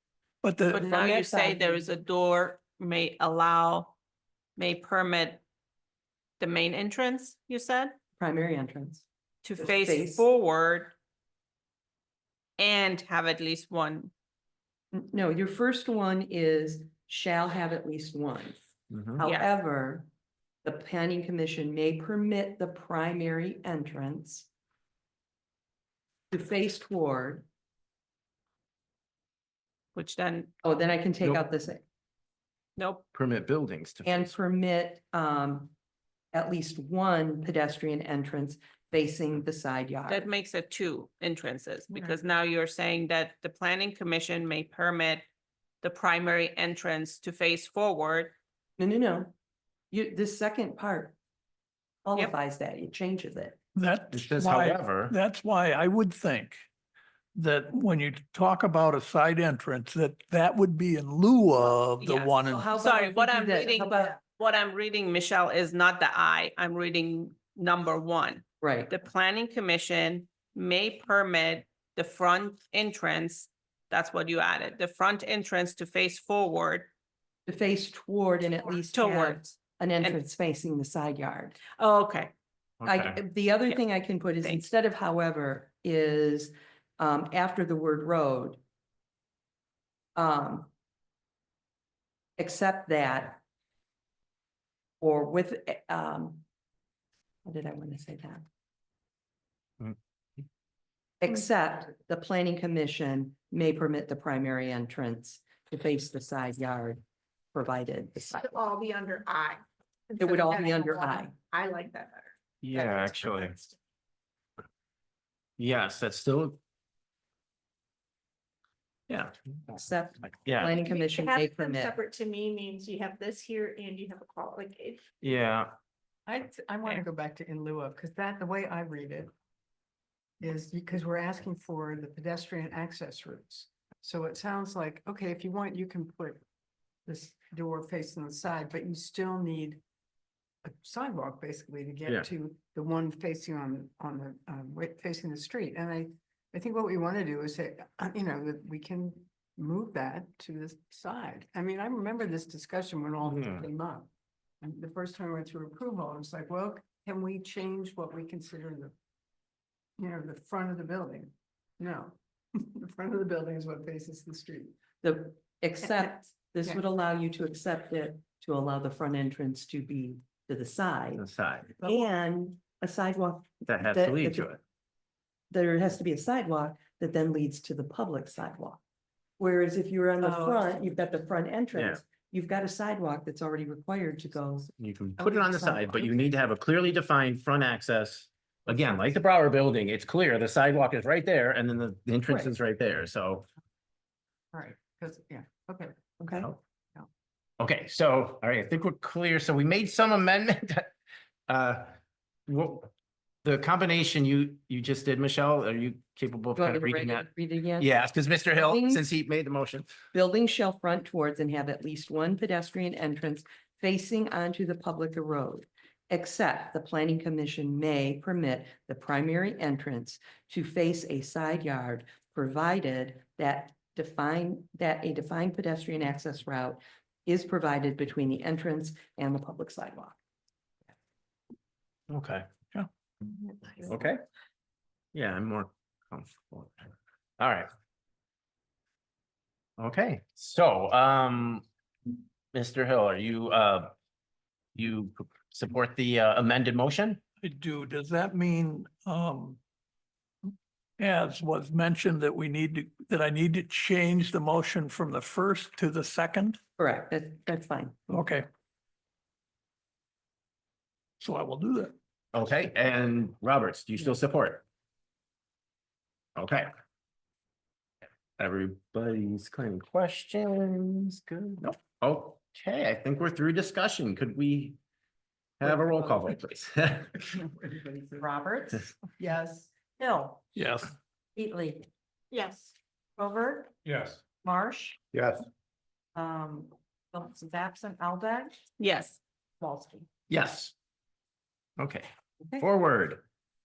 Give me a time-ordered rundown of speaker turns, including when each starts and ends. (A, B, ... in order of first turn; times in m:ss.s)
0:00.4-0:01.2 A
0:00.7-0:04.0 B
0:00.8-0:01.8 C
0:04.6-0:05.4 B
0:06.4-0:08.0 B
0:08.2-0:09.0 C
0:09.4-0:10.9 B
0:09.6-0:10.3 C
0:12.6-0:14.1 B
0:14.9-0:18.6 C
0:18.9-0:19.2 D
0:19.2-0:20.1 C
0:19.2-0:19.5 B
0:20.6-0:24.5 C
0:26.3-0:27.4 C
0:29.9-0:30.5 B
0:30.6-0:31.8 C
0:32.8-0:33.0 B
0:33.1-0:34.3 D
0:34.0-0:35.7 C
0:36.3-0:40.3 C
0:40.1-0:45.2 B
0:45.8-0:48.3 B
0:48.8-0:49.3 C
0:49.9-0:51.1 C
0:52.0-0:53.6 C
0:53.7-0:56.7 A
0:54.1-0:55.2 D
0:57.3-1:02.7 A
1:02.0-1:16.9 B
1:02.4-1:04.2 C
1:08.6-1:08.9 C
1:17.4-1:21.6 C
1:18.9-1:19.4 B
1:21.8-1:22.3 B
1:22.8-1:23.2 D
1:22.8-1:28.6 C
1:30.2-1:30.7 C
1:32.4-1:33.4 C
1:35.0-1:36.4 C
1:37.4-1:38.4 C
1:41.2-1:47.0 C
1:47.5-1:48.5 C
1:48.4-1:53.7 E
1:50.2-1:51.3 C
1:52.6-1:53.5 D
1:55.6-1:56.6 D
1:59.1-1:59.3 D
1:59.7-2:02.0 C
2:00.4-2:00.8 D
2:00.8-2:05.0 E
2:05.2-2:05.7 D
2:06.3-2:09.3 F
2:10.4-2:16.4 F
2:17.0-2:19.8 F
2:20.6-2:34.1 F
2:33.2-2:33.7 D
2:34.6-2:38.9 F
2:40.0-2:44.8 F
2:45.0-2:51.2 C
2:51.2-2:51.8 D
2:51.8-2:54.5 C
2:53.6-2:54.6 D
2:55.5-2:58.8 C
2:59.4-3:04.7 C
3:00.3-3:00.6 F
3:01.7-3:02.0 D
3:04.8-3:13.4 D
3:05.2-3:06.1 F
3:12.3-3:12.5 C
3:14.5-3:16.0 F
3:16.2-3:16.5 C
3:17.6-3:20.9 D
3:21.5-3:21.9 D
3:22.5-3:22.9 D
3:23.4-3:27.3 D
3:26.6-3:27.9 C
3:27.8-3:29.9 D
3:28.5-3:29.0 C
3:30.1-3:50.2 C
3:52.1-3:52.5 D
3:53.8-3:54.2 D
3:55.1-3:57.7 D
3:59.8-4:01.6 D
4:02.5-4:03.9 D
4:04.7-4:07.2 D
4:07.4-4:09.6 A
4:10.5-4:16.6 A
4:16.8-4:18.0 C
4:18.1-4:18.4 A
4:21.2-4:21.9 A
4:22.3-4:24.6 D
4:26.4-4:26.7 D
4:28.4-4:34.8 D
4:35.6-4:37.2 D
4:38.0-4:38.8 G
4:39.2-4:40.3 E
4:40.5-4:40.9 A
4:41.4-4:41.8 G
4:42.3-4:42.7 E
4:43.2-4:43.7 G
4:43.9-4:44.1 D
4:44.4-4:45.0 G
4:45.1-4:45.4 D
4:46.2-4:48.5 G
4:48.8-4:49.2 B
4:49.6-4:50.0 G
4:50.3-4:50.7 D
4:51.8-4:52.1 D
4:52.6-4:53.2 D